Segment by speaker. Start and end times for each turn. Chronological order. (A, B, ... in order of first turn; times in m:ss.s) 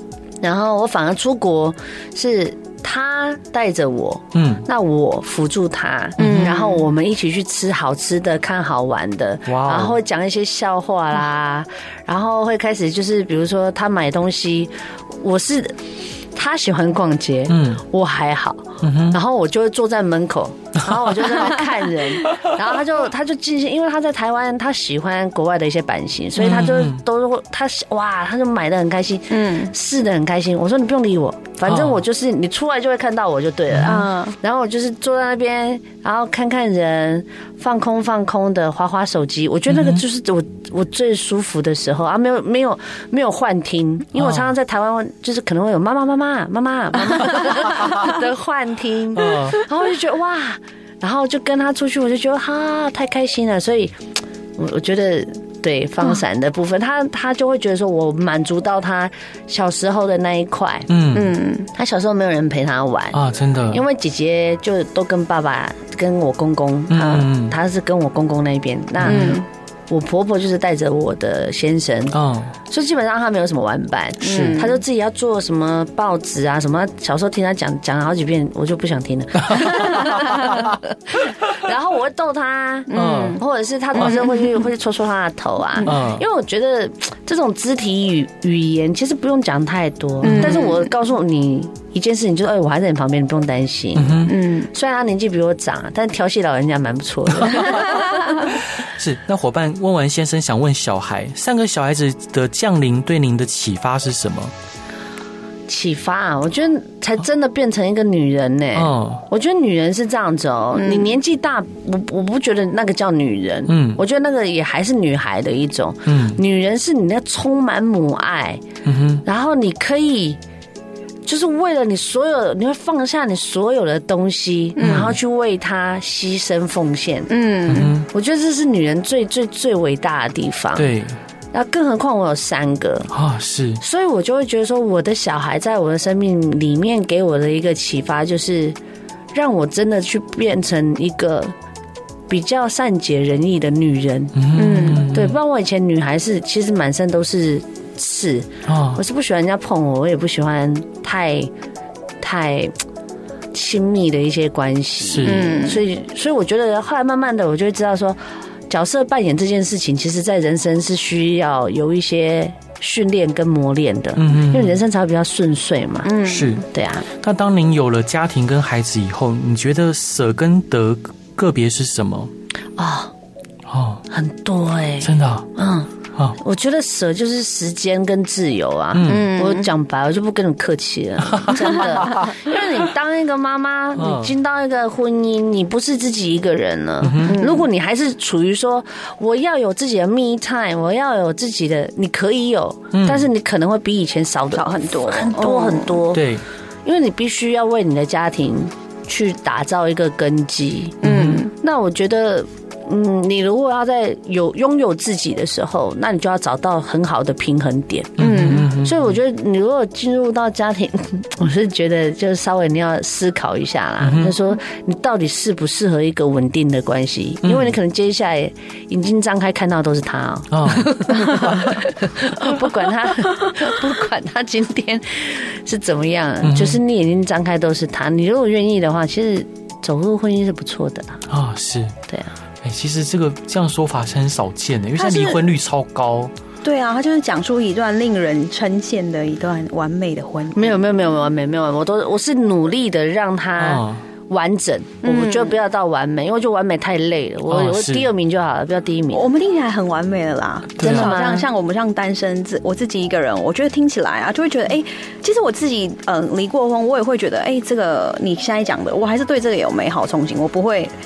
0:00.4-0:15.8 A
0:04.3-0:04.6 B
0:06.2-0:06.5 B
0:06.2-0:06.8 C
0:09.5-0:10.0 B
0:16.3-0:54.0 A
0:17.5-0:17.8 B
0:18.8-0:19.2 B
0:26.4-0:27.0 B
0:29.3-0:29.7 C
0:31.7-0:32.0 B
0:33.7-0:34.0 B
0:33.8-0:34.4 C
0:39.7-0:40.0 B
0:44.2-0:44.5 B
0:49.2-0:49.6 B
0:54.6-1:00.9 A
1:00.9-1:01.3 B
1:01.1-1:01.7 C
1:01.7-1:38.3 A
1:03.1-1:03.8 B
1:06.9-1:07.6 B
1:09.0-1:09.3 B
1:09.0-1:09.4 C
1:12.1-1:12.5 B
1:14.2-1:14.6 B
1:14.2-1:14.8 C
1:22.9-1:23.4 C
1:22.9-1:23.4 B
1:24.0-1:24.4 C
1:25.8-1:26.2 B
1:30.2-1:30.8 C
1:30.2-1:30.6 B
1:34.0-1:34.4 B
1:34.3-1:34.7 C
1:37.5-1:44.5 B
1:45.7-1:58.6 A
1:48.8-1:49.2 B
1:50.8-1:51.1 C
1:53.7-1:54.0 B
1:56.1-1:56.4 B
1:58.8-1:59.2 B
1:59.2-2:00.4 A
2:01.3-2:07.3 A
2:04.8-2:05.1 C
2:04.8-2:05.2 B
2:07.3-2:08.0 C
2:07.7-2:08.1 B
2:08.1-2:10.9 A
2:10.8-2:11.2 B
2:11.5-2:13.1 A
2:13.1-2:13.8 B
2:13.8-2:18.8 A
2:19.3-2:21.5 A
2:22.3-2:31.5 A
2:24.4-2:25.4 B
2:24.5-2:25.1 C
2:28.7-2:29.0 B
2:32.2-2:32.8 A
2:33.5-2:47.1 A
2:35.0-2:35.5 B
2:35.2-2:35.8 C
2:44.2-2:44.8 B
2:46.0-2:46.6 C
2:46.2-2:52.3 B
2:52.8-2:53.1 A
2:53.7-2:54.0 B
2:54.1-3:16.3 A
2:55.0-2:55.5 B
2:58.9-2:59.3 B
2:59.1-2:59.7 C
3:01.3-3:01.7 B
3:04.0-3:04.3 B
3:07.0-3:07.4 B
3:07.3-3:07.6 C
3:12.9-3:13.3 B
3:14.5-3:16.0 C
3:16.1-3:16.4 B
3:16.8-3:51.2 A
3:21.0-3:21.5 B
3:21.0-3:21.5 C
3:28.2-3:29.1 B
3:28.2-3:28.8 C
3:34.0-3:34.4 B
3:37.4-3:37.7 B
3:40.5-3:41.6 B
3:46.4-3:46.8 B
3:51.3-3:52.0 B
3:52.1-3:52.3 A
3:52.6-3:56.3 B
3:55.0-3:55.4 C
3:56.6-4:00.8 C
4:00.5-4:09.3 A
4:03.6-4:04.0 B
4:05.0-4:05.6 C
4:07.5-4:08.1 B
4:09.1-4:20.9 C
4:10.8-4:11.2 B
4:10.8-4:11.5 A